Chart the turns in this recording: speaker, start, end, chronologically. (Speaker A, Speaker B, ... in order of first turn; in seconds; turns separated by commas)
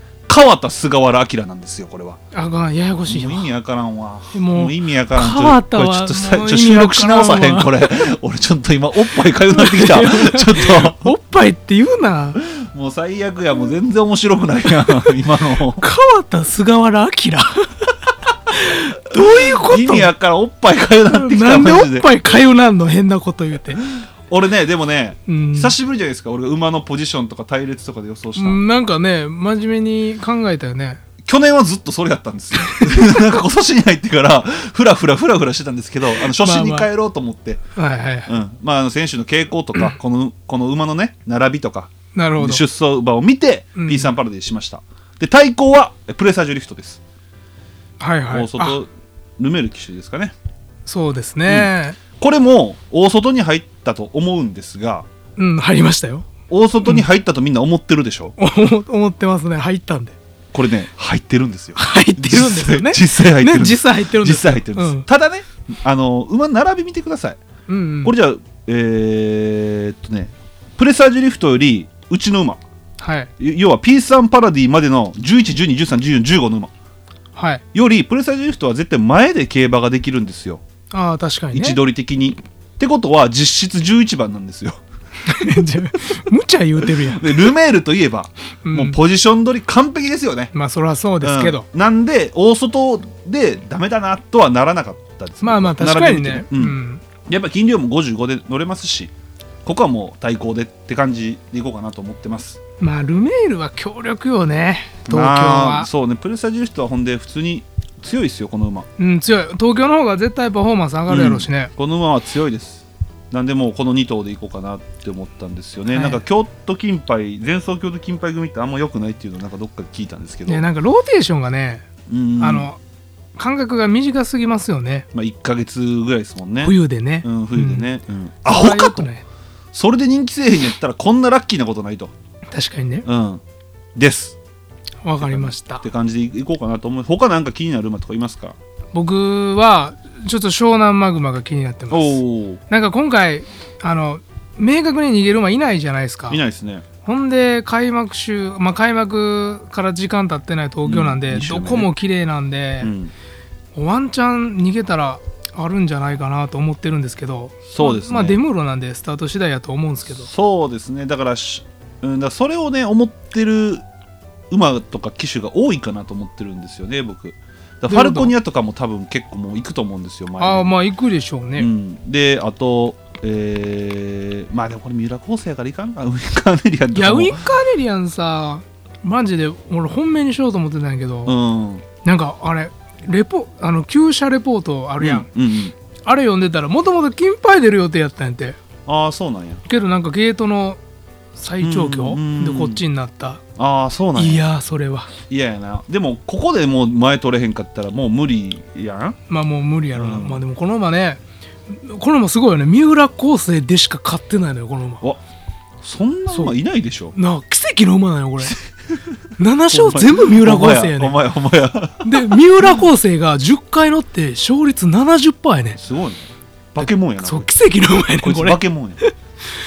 Speaker A: 0.3-2.2, Speaker B: 2.3-3.5, Speaker A: 3.1-11.0, Speaker B: 4.3-8.0, Speaker B: 9.4-12.4, Speaker A: 12.7-15.8, Speaker B: 15.8-17.9, Speaker B: 18.5-20.1, Speaker A: 19.1-22.0, Speaker B: 21.1-23.8, Speaker A: 24.3-28.6, Speaker B: 25.3-25.7, Speaker B: 28.4-31.0, Speaker A: 31.3-37.6, Speaker B: 32.5-33.1, Speaker B: 36.2-36.9, Speaker B: 37.8-38.3, Speaker A: 38.3-47.0, Speaker B: 42.1-42.6, Speaker B: 43.8-44.1, Speaker B: 48.0-48.8, Speaker A: 48.3-48.8, Speaker A: 49.4-50.3, Speaker B: 50.9-52.0, Speaker A: 52.2-55.0, Speaker B: 55.4-56.3, Speaker A: 56.5-58.3, Speaker B: 58.4-60.1, Speaker A: 60.5-67.4, Speaker B: 61.8-65.1, Speaker B: 67.7-68.1, Speaker A: 68.0-72.6, Speaker B: 73.0-73.3, Speaker A: 73.4-76.7, Speaker B: 77.3-77.6, Speaker A: 77.7-80.6, Speaker B: 80.9-81.8, Speaker A: 81.5-84.8, Speaker B: 85.2-87.5, Speaker A: 87.2-90.5, Speaker B: 88.6-89.0, Speaker B: 90.5-91.7, Speaker A: 91.2-96.7, Speaker B: 95.4-97.0, Speaker A: 97.3-99.1, Speaker A: 99.6-102.6, Speaker B: 102.8-105.9, Speaker A: 105.1-108.8, Speaker B: 109.0-111.7, Speaker A: 111.1-120.6, Speaker B: 115.9-116.2, Speaker B: 120.5-121.8, Speaker A: 122.1-122.7, Speaker B: 122.4-122.8, Speaker B: 123.4-125.1, Speaker A: 125.1-126.7, Speaker B: 126.6-127.9, Speaker A: 127.2-129.1, Speaker B: 128.4-129.2, Speaker A: 129.7-132.1, Speaker B: 132.5-133.1, Speaker A: 133.1-133.4, Speaker A: 133.9-134.3, Speaker B: 135.0-135.8, Speaker A: 135.2-138.6, Speaker B: 138.9-146.4, Speaker A: 141.9-142.6, Speaker A: 146.3-146.8, Speaker B: 147.0-152.9, Speaker A: 150.9-151.9, Speaker A: 152.8-153.1, Speaker B: 153.7-160.3, Speaker A: 157.8-158.3, Speaker A: 160.3-163.8, Speaker A: 164.5-170.7, Speaker B: 167.9-168.3, Speaker B: 170.4-171.7, Speaker A: 171.6-177.3, Speaker B: 176.9-181.4, Speaker A: 181.3-181.8, Speaker B: 182.0-185.3, Speaker A: 185.0-185.7, Speaker B: 186.0-188.6, Speaker A: 188.9-189.6, Speaker B: 189.7-190.8, Speaker B: 191.3-193.4, Speaker A: 191.6-192.8, Speaker A: 193.6-194.4, Speaker B: 194.1-195.1, Speaker A: 195.3-199.2, Speaker B: 199.3-205.0, Speaker A: 199.9-200.4, Speaker A: 205.8-207.1, Speaker B: 206.3-206.5, Speaker B: 207.1-208.6, Speaker B: 209.4-211.2, Speaker A: 209.7-212.3, Speaker B: 212.0-215.8, Speaker A: 215.8-216.2, Speaker A: 216.8-217.5, Speaker B: 216.8-219.1, Speaker A: 218.2-219.0